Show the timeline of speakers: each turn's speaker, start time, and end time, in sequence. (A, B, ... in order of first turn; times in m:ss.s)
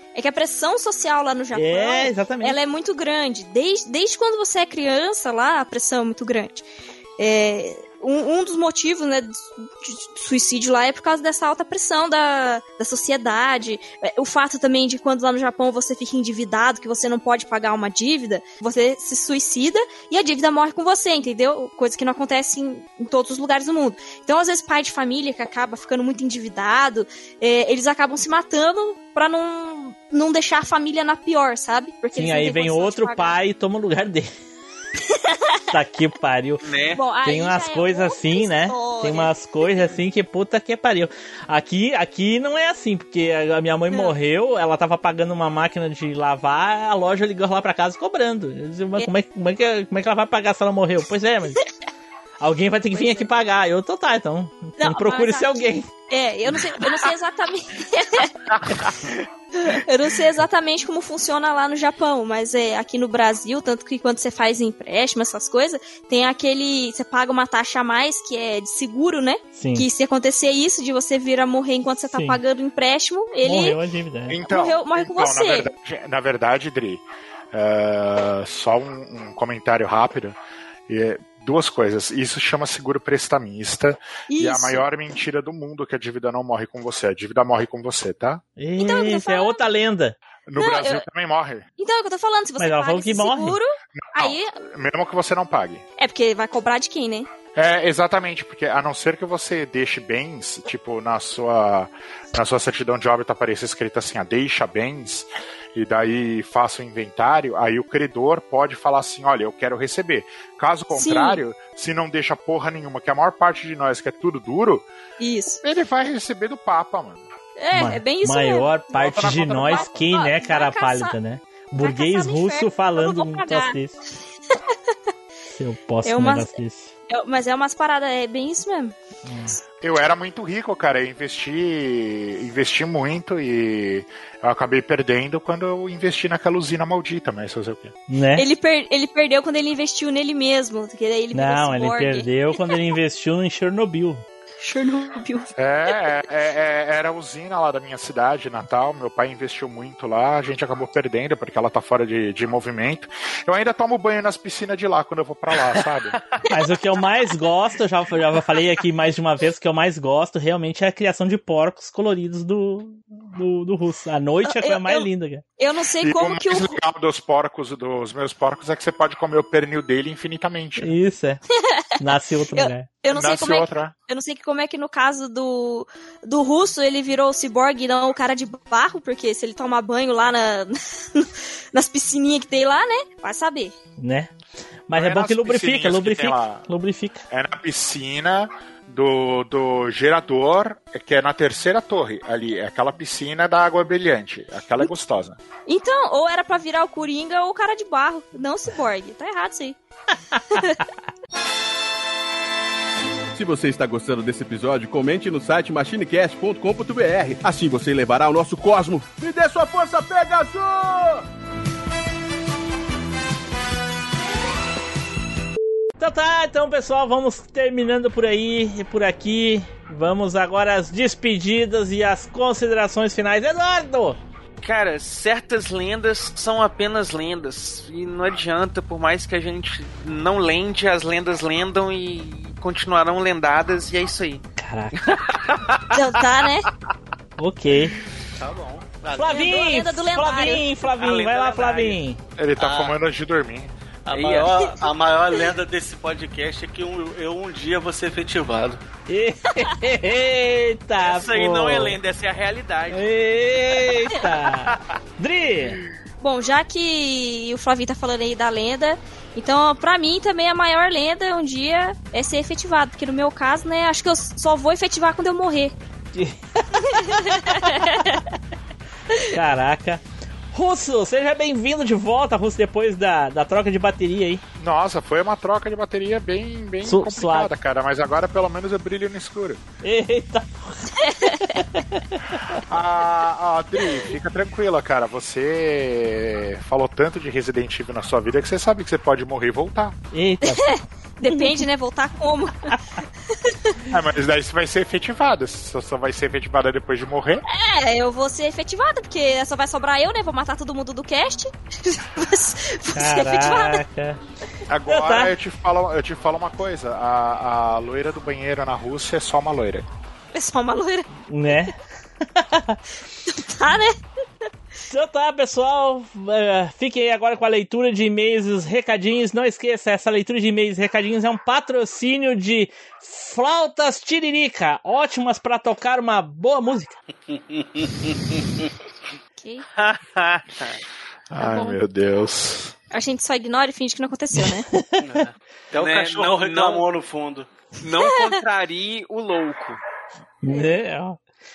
0:00.1-0:06.6 A
0:01.6-0:02.6 B
0:07.2-0:33.4 A
0:32.1-0:34.3 B
0:35.1-0:35.6 A
0:35.7-0:36.6 B
0:36.6-0:37.0 C
0:37.0-0:39.9 A
0:37.2-0:51.6 B
0:52.4-0:55.9 B
0:53.0-0:53.2 A
0:54.8-0:58.3 A
0:59.6-1:13.8 A
1:09.6-1:09.9 B
1:12.1-1:12.4 B
1:13.4-1:14.4 B
1:14.3-1:20.4 D
1:14.5-1:15.7 A
1:20.9-1:28.4 D
1:24.3-1:24.8 A
1:28.6-1:30.2 B
1:28.8-1:29.6 A
1:30.4-1:31.6 D
1:30.6-1:31.0 A
1:31.8-1:34.6 A
1:32.6-1:33.6 B
1:34.0-1:35.8 D
1:36.0-1:37.3 A
1:37.5-1:54.9 D
1:50.9-1:51.4 A
1:55.2-1:55.6 A
1:55.6-1:57.2 D
1:57.6-2:01.1 A
1:57.7-2:04.0 B
1:59.0-2:00.0 D
2:01.8-2:03.8 A
2:05.6-2:06.9 B
2:06.0-2:06.6 A
2:07.1-2:09.0 A
2:09.3-2:09.5 B
2:09.8-2:18.0 D
2:18.1-2:18.4 B
2:18.4-2:22.8 A
2:21.3-2:24.2 B
2:24.6-2:26.0 A
2:25.6-2:36.2 D
2:36.5-2:45.4 B
2:44.5-2:45.1 A
2:45.6-2:46.8 A
2:46.0-2:51.0 D
2:50.8-2:51.4 B
2:51.6-2:51.8 A
2:52.0-2:52.9 B
2:52.6-3:03.7 A
2:53.1-2:53.9 D
3:04.0-3:04.3 B
3:04.9-3:07.2 B
3:04.9-3:06.7 D
3:07.3-3:15.4 D
3:15.7-3:19.8 A
3:20.3-3:20.8 A
3:23.3-3:31.2 E
3:36.0-3:44.2 B
3:44.6-3:54.4 C
3:54.6-3:55.0 B
3:55.0-3:55.9 C
3:55.9-3:56.7 A
3:57.4-3:58.0 B
3:58.4-3:59.4 F
3:59.1-4:02.2 B
3:59.3-4:00.6 A
4:01.0-4:02.0 C
4:02.4-4:03.7 D
4:02.6-4:03.0 F
4:04.1-4:08.8 F
4:04.1-4:04.8 C
4:09.1-4:12.0 B
4:11.0-4:13.0 C
4:12.9-4:15.8 B
4:16.2-4:25.8 A
4:26.1-4:28.0 B
4:26.8-4:28.2 A
4:29.3-4:34.4 B
4:34.6-4:39.6 D
4:36.8-4:37.5 B
4:39.8-4:42.6 B
4:41.0-4:41.4 A
4:42.7-4:50.0 D
4:50.1-4:50.7 B
4:50.4-4:53.7 A
4:51.2-4:51.5 B
4:53.9-4:57.4 D
4:57.5-5:03.8 A
5:03.0-5:04.2 B
5:04.7-5:09.9 D
5:04.9-5:05.3 B
5:10.3-5:11.1 A
5:11.3-5:11.7 B
5:12.4-5:12.8 B
5:13.3-5:14.0 A
5:14.9-5:27.0 B
5:27.3-5:28.4 F
5:29.4-5:29.7 A
5:29.8-5:30.8 C
5:31.3-5:32.7 D
5:31.4-5:31.8 A
5:32.9-5:34.7 A
5:35.0-5:37.5 F
5:35.8-5:36.9 C
5:37.8-5:39.8 C
5:38.0-5:38.3 A
5:40.4-5:41.2 B